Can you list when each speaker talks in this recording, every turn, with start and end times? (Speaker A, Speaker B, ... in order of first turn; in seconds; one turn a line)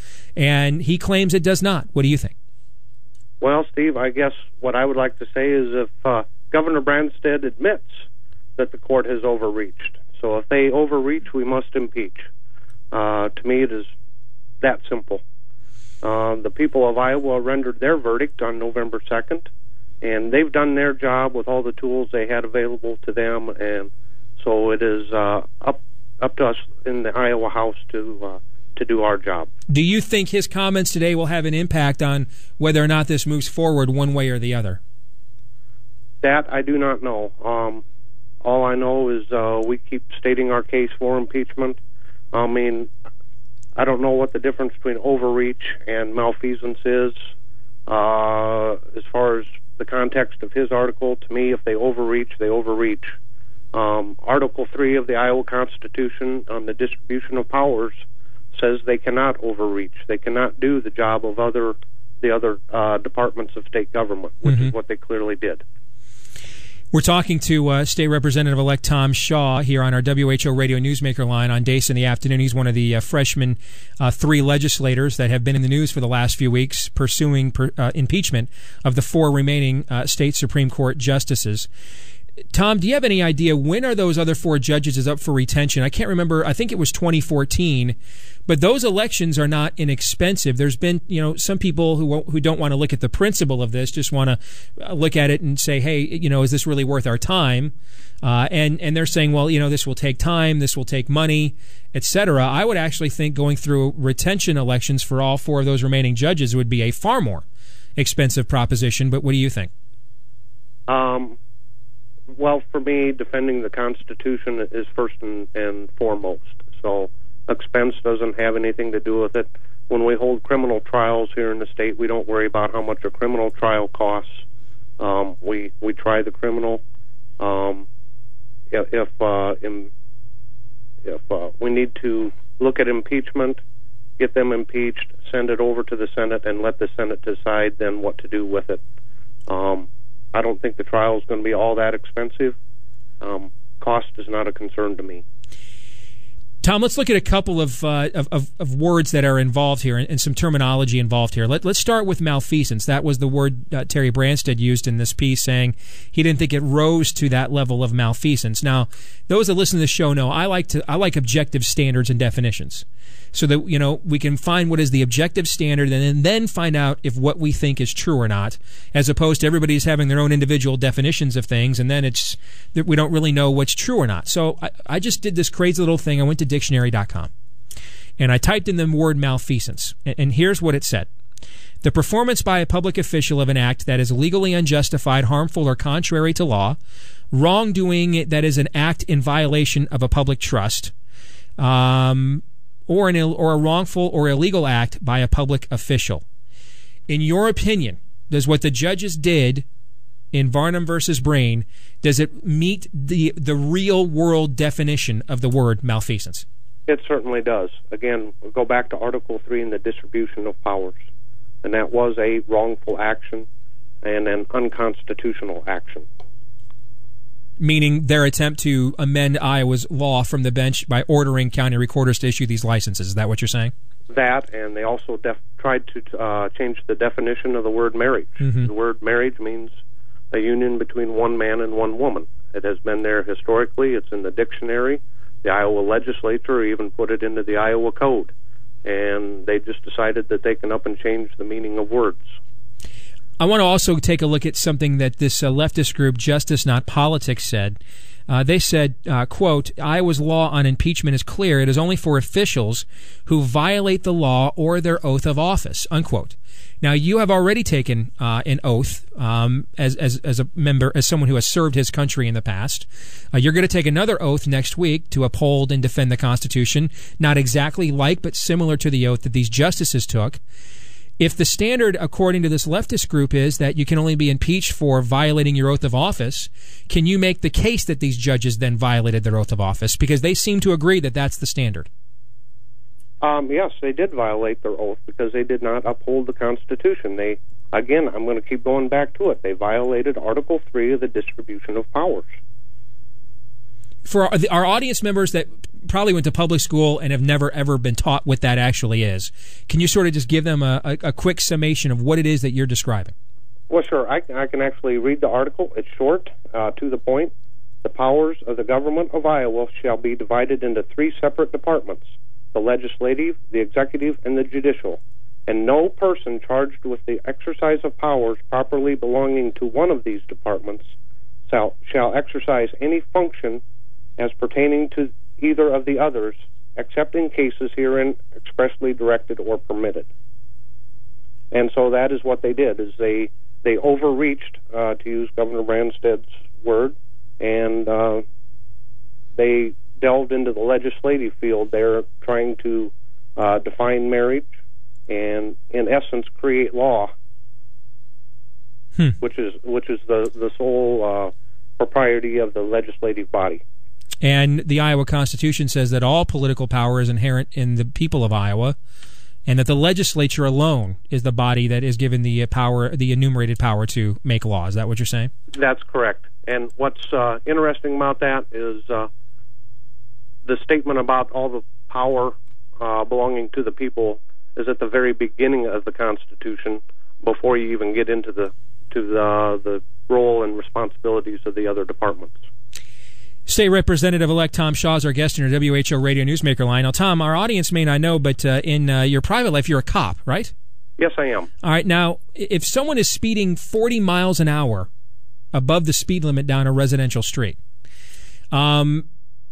Speaker A: 0.3-2.3
Speaker B: 3.4-8.0
Speaker B: 8.6-12.3
Speaker B: 12.9-13.9
Speaker B: 14.6-15.2
Speaker B: 16.0-19.5
Speaker B: 20.0-29.5
Speaker A: 29.7-34.8
Speaker B: 36.2-37.8
Speaker B: 38.4-41.8
Speaker B: 42.3-42.9
Speaker B: 43.8-47.1
Speaker B: 47.9-53.0
Speaker B: 53.7-58.0
Speaker B: 58.5-65.6
Speaker A: 64.5-64.7
Speaker A: 66.9-81.7
Speaker A: 82.5-87.9
Speaker A: 88.5-107.4
Speaker A: 108.0-109.7
Speaker B: 110.9-111.4
Speaker B: 112.3-124.4
Speaker B: 125.0-126.8
Speaker B: 127.4-127.9
Speaker B: 128.7-129.9
Speaker B: 131.0-133.6
Speaker B: 134.2-138.8
Speaker B: 139.5-142.6
Speaker B: 143.2-145.2
Speaker A: 146.6-177.3
Speaker A: 178.2-181.1
Speaker A: 181.8-186.8
Speaker A: 187.3-190.9
Speaker A: 191.6-196.2
Speaker A: 197.1-199.6
Speaker A: 200.3-206.4
Speaker B: 206.9-211.0
Speaker B: 211.6-213.5
Speaker B: 214.0-216.1
Speaker A: 217.6-223.7
Speaker B: 224.1-229.7
Speaker A: 228.4-228.7
Speaker B: 230.3-238.3
Speaker B: 238.8-242.3
Speaker A: 243.4-270.4
Speaker A: 271.2-281.9
Speaker B: 283.2-292.3
Speaker A: 294.0-303.1
Speaker B: 303.7-307.3
Speaker B: 307.8-312.0
Speaker B: 312.5-320.9
Speaker B: 321.5-323.6
Speaker B: 324.2-330.1
Speaker B: 331.5-338.2
Speaker B: 339.4-344.4
Speaker B: 345.1-347.1
Speaker B: 349.2-353.6
Speaker A: 354.2-358.8
Speaker A: 359.5-365.3
Speaker B: 365.5-369.1
Speaker B: 370.4-382.4
Speaker A: 383.5-390.5
Speaker B: 391.0-391.5
Speaker A: 391.6-394.9
Speaker A: 395.5-397.6
Speaker A: 398.5-399.1